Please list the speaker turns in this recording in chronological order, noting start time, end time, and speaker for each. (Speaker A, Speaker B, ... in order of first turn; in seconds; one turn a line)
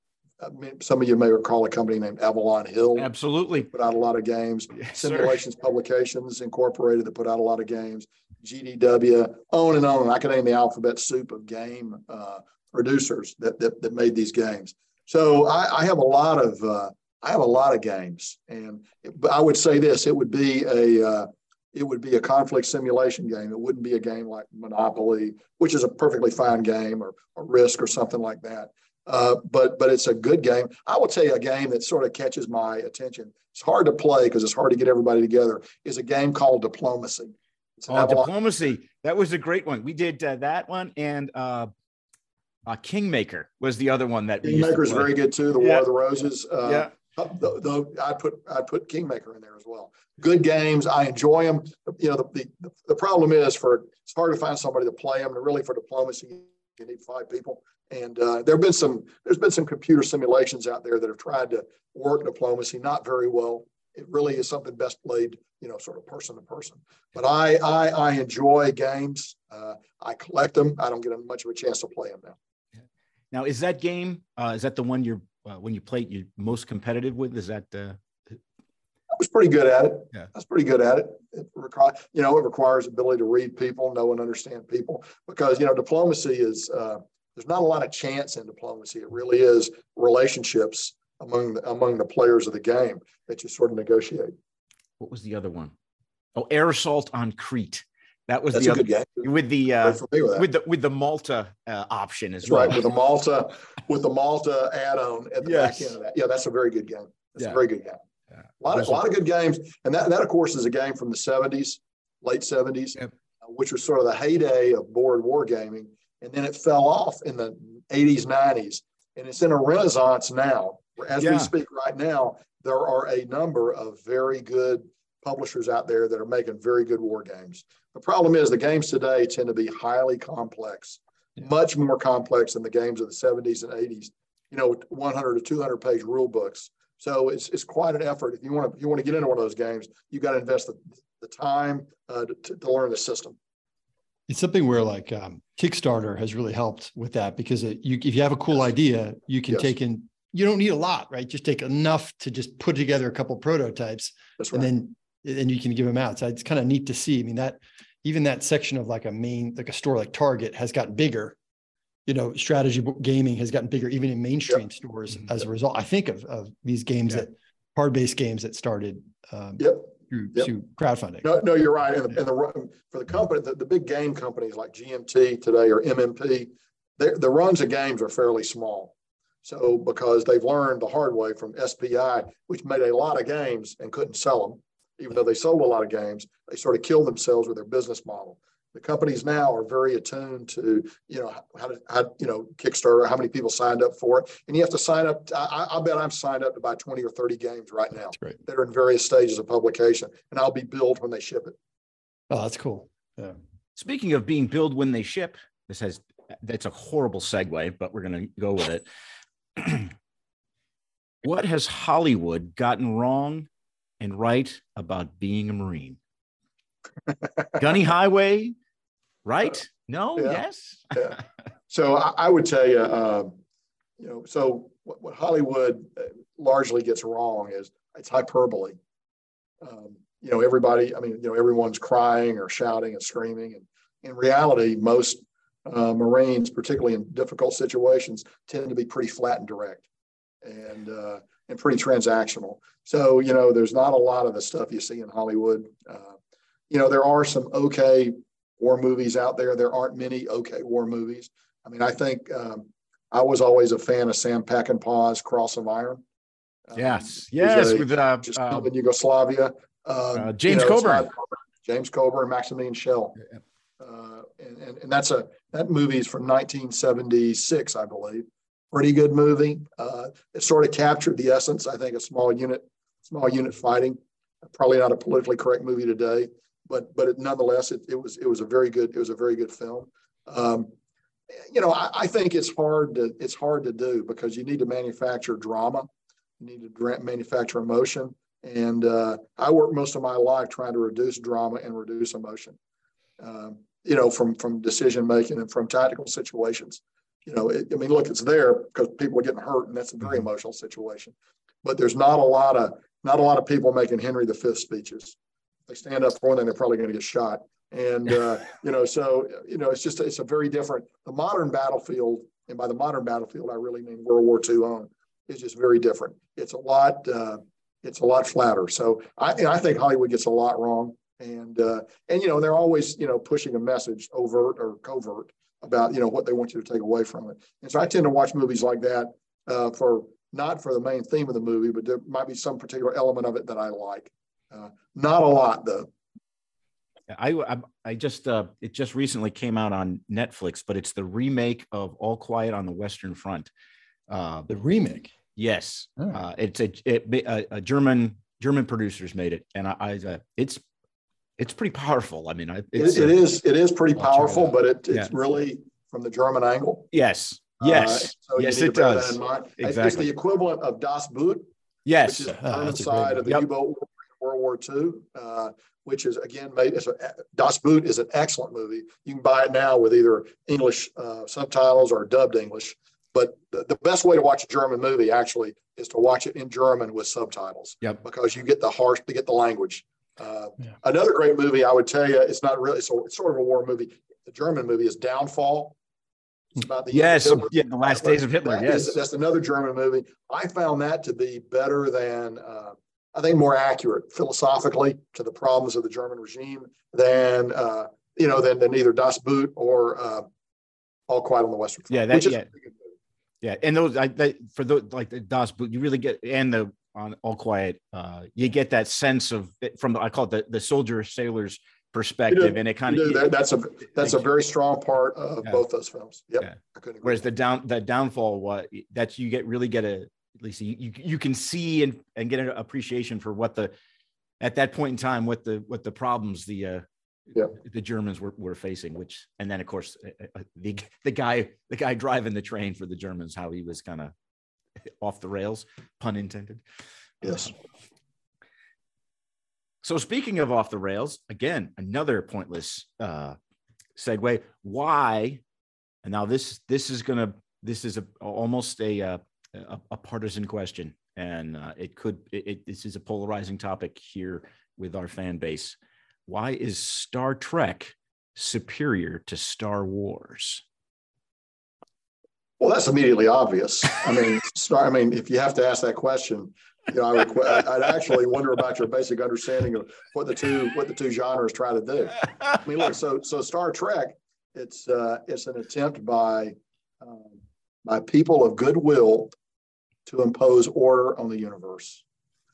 Speaker A: 0.4-3.1
Speaker B: 3.0-3.7
Speaker A: 3.7-38.3
Speaker B: 4.8-5.4
Speaker B: 37.9-41.7
Speaker B: 42.6-45.8
Speaker A: 44.4-72.3
Speaker B: 46.6-46.9
Speaker B: 73.3-78.4
Speaker A: 79.1-94.3
Speaker B: 95.0-95.7
Speaker B: 96.3-102.8
Speaker A: 98.5-99.3
Speaker A: 99.8-100.5
Speaker A: 102.4-108.0
Speaker B: 105.4-105.9
Speaker A: 108.6-143.3
Speaker B: 108.7-109.0
Speaker B: 121.2-121.5
Speaker C: 144.3-161.3
Speaker A: 154.4-154.7
Speaker C: 162.1-171.2
Speaker A: 169.6-170.5
Speaker A: 171.2-178.9
Speaker A: 179.4-201.5
Speaker C: 202.3-203.3
Speaker B: 203.7-208.8
Speaker B: 209.6-209.9
Speaker B: 211.2-213.5
Speaker B: 214.0-216.0
Speaker B: 217.6-218.5
Speaker B: 219.2-220.9
Speaker A: 220.2-220.4
Speaker A: 220.9-221.2
Speaker A: 221.7-223.3
Speaker A: 224.0-228.8
Speaker A: 229.6-239.8
Speaker A: 240.4-246.1
Speaker A: 246.7-256.0
Speaker A: 256.7-263.2
Speaker B: 256.8-258.7
Speaker B: 260.1-261.1
Speaker A: 263.8-280.7
Speaker A: 281.4-285.9
Speaker A: 286.4-292.6
Speaker A: 293.2-305.1
Speaker A: 305.7-335.9
Speaker B: 337.1-343.5
Speaker B: 344.1-344.5
Speaker C: 344.5-345.1
Speaker B: 345.4-350.6
Speaker B: 351.4-353.1
Speaker A: 352.8-356.9
Speaker B: 354.0-355.1
Speaker B: 356.9-360.1
Speaker A: 357.6-361.5
Speaker B: 361.9-362.3
Speaker A: 362.0-385.8
Speaker C: 362.4-363.2
Speaker A: 386.6-400.2
Speaker B: 386.9-389.0
Speaker A: 401.1-402.7
Speaker B: 401.9-402.5
Speaker B: 403.4-413.2
Speaker A: 412.3-417.2
Speaker B: 416.4-423.7
Speaker B: 424.4-426.8
Speaker B: 427.5-434.1
Speaker B: 434.9-436.6
Speaker A: 437.2-437.5
Speaker B: 439.8-443.4
Speaker B: 443.9-445.4
Speaker B: 446.0-455.8
Speaker B: 456.3-460.6
Speaker A: 462.6-479.3
Speaker A: 480.1-482.0